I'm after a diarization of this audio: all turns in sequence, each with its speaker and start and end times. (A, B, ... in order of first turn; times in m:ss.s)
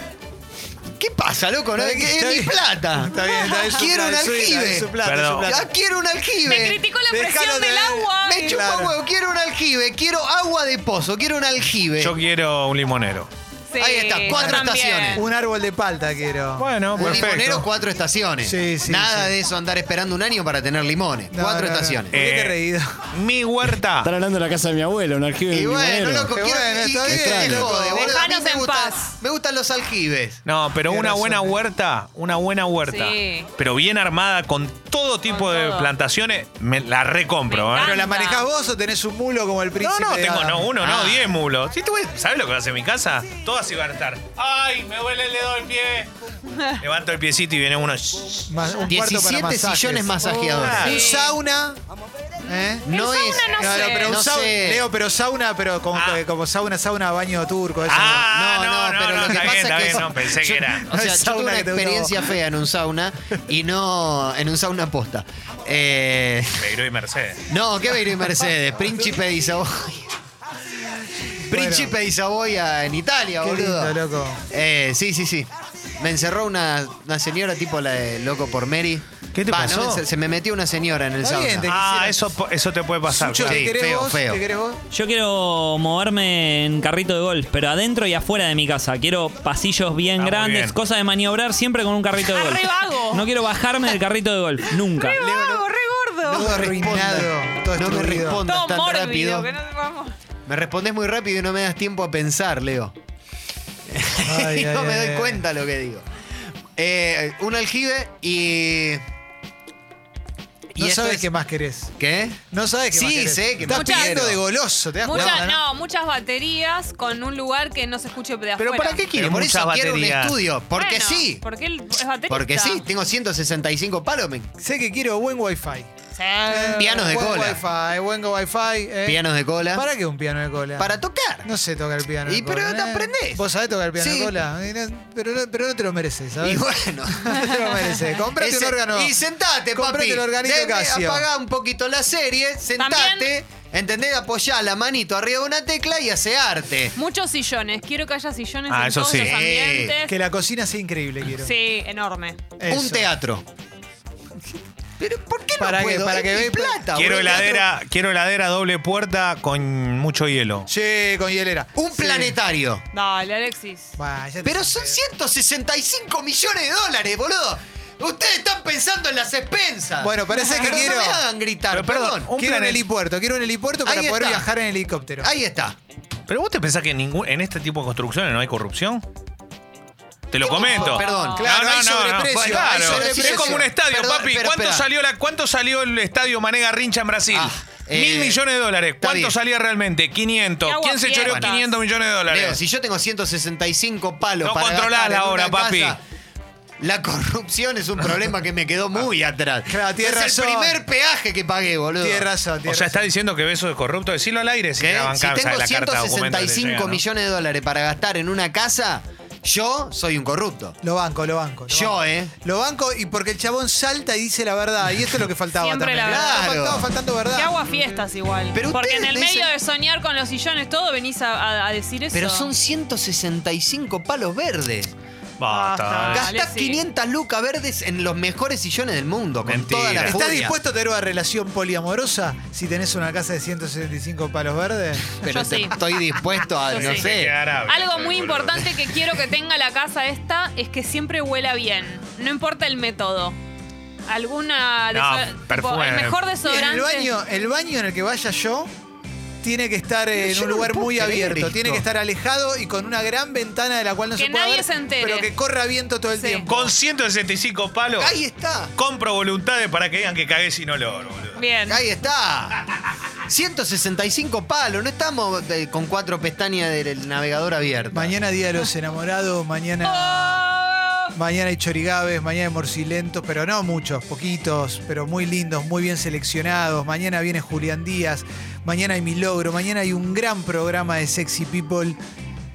0:01.0-0:03.1 A
0:01.8-0:05.7 B
0:03.2-0:03.9 C
0:03.7-0:04.9 A
0:05.0-0:05.6 D
0:05.4-0:06.8 A
0:06.4-0:08.6 C
0:07.1-0:09.0 B
0:08.2-0:12.2 A
0:12.0-0:13.3 D
0:13.7-0:15.2 C
0:13.8-0:15.2 A
0:14.3-0:17.7 B
0:16.6-0:17.5 D
0:16.9-0:22.2 A
0:18.4-0:19.3 B
0:21.3-0:22.9 B
0:22.1-0:22.6 D
0:23.1-0:24.1 D
0:24.0-0:26.5 E
0:25.5-0:30.4 A
0:26.3-0:28.1 B
0:27.0-0:28.0 E
0:27.9-0:29.1 C
0:30.4-0:37.9 D
0:30.9-0:31.6 B
0:32.8-0:33.5 C
0:35.3-0:35.9 C
0:37.5-0:38.4 C
0:37.8-0:40.7 B
0:39.8-0:46.1 D
0:40.8-0:41.3 A
0:46.5-0:46.8 C
0:46.8-0:48.5 D
0:48.5-0:51.8 B
0:48.8-0:50.9 A
0:50.4-0:51.0 D
0:50.8-0:51.4 C
0:52.4-0:52.9 B
0:52.8-0:54.8 A
0:52.9-0:54.2 C
0:53.5-0:58.3 B
0:55.9-0:56.2 D
0:57.8-1:00.8 D
0:58.2-1:06.7 A
0:59.2-1:00.1 B
1:00.7-1:02.4 B
1:06.6-1:07.4 D
1:07.5-1:10.1 A
1:11.3-1:14.0 A
1:11.5-1:12.0 B
1:13.4-1:14.4 B
1:14.5-1:21.7 A
1:19.3-1:20.0 D
1:21.2-1:22.2 B
1:21.6-1:23.7 D
1:23.1-1:24.8 B
1:23.4-1:24.4 A
1:24.9-1:35.2 F
1:30.2-1:30.8 D
1:32.3-1:33.3 C
1:34.9-1:36.6 C
1:35.2-1:35.6 A
1:36.2-1:39.5 A
1:36.3-1:38.4 B
1:38.4-1:40.1 C
1:40.5-1:42.9 A
1:43.9-1:46.0 A
1:44.2-1:45.4 B
1:46.8-1:49.0 A
1:50.7-1:51.9 B
1:50.8-1:51.3 A
1:52.0-1:54.4 A
1:52.5-1:55.6 B
1:53.7-1:54.2 C
1:55.0-1:59.0 C
1:55.1-1:55.4 A
1:58.6-2:00.4 D
1:59.1-2:01.4 A
2:00.7-2:02.8 C
2:02.3-2:04.5 A
2:04.6-2:05.9 B
2:06.1-2:06.9 C
2:06.5-2:19.2 B
2:06.7-2:07.6 A
2:09.0-2:09.8 A
2:10.8-2:11.5 A
2:12.2-2:13.4 A
2:14.0-2:14.3 A
2:16.4-2:17.3 A
2:18.4-2:26.9 A
2:19.7-2:21.3 B
2:22.8-2:23.3 C
2:26.9-2:30.1 C
2:28.7-2:29.3 D
2:29.2-2:30.0 A
2:30.0-2:31.5 B
2:31.4-2:32.4 C
2:32.6-2:33.1 B
2:32.7-2:33.4 A
2:35.0-2:37.6 A
2:35.6-2:37.4 B
2:36.9-2:40.7 D
2:40.7-2:42.4 B
2:41.8-2:42.8 A
2:42.9-2:43.9 C
2:44.0-2:45.0 B
2:44.4-2:52.3 A
2:50.0-2:51.2 B
2:51.7-2:52.8 D
2:52.4-2:55.3 B
2:53.8-2:54.5 A
2:55.2-2:55.8 A
2:56.3-2:59.0 D
3:00.3-3:12.6 D
3:00.4-3:01.4 A
3:00.5-3:01.4 C
3:00.7-3:03.7 B
3:02.3-3:04.8 A
3:07.3-3:08.4 A
3:09.0-3:09.3 A
3:10.6-3:11.7 C
3:11.1-3:11.5 A
3:12.3-3:16.0 A
3:14.4-3:16.0 D
3:16.8-3:22.3 A
3:19.7-3:20.8 B
3:22.0-3:23.1 B
3:22.6-3:27.0 D
3:24.8-3:30.8 A
3:30.8-3:38.0 B
3:31.7-3:32.3 A
3:35.5-3:36.4 C
3:36.0-3:36.9 A
3:37.3-3:42.5 C
3:38.5-3:39.5 A
3:42.1-3:44.9 A
3:45.4-3:46.3 D
3:46.0-3:46.8 C
3:46.0-3:50.6 A
3:49.4-3:50.2 D
3:50.0-3:55.2 B
3:55.1-3:57.4 A
3:55.3-3:55.8 C
3:56.7-3:58.7 D
3:56.7-3:57.1 C
3:57.7-4:03.4 C
4:04.1-4:07.1 C
4:04.9-4:06.2 D
4:06.4-4:08.7 B
4:09.4-4:16.7 B
4:10.1-4:11.8 A
4:14.2-4:15.3 C
4:16.2-4:16.5 C
4:16.4-4:18.2 D
4:18.0-4:18.7 A
4:18.7-4:21.4 D
4:21.4-4:21.8 C
4:21.7-4:22.6 A
4:23.3-4:28.1 A
4:27.9-4:30.4 B
4:29.8-4:31.1 C
4:31.1-4:42.0 B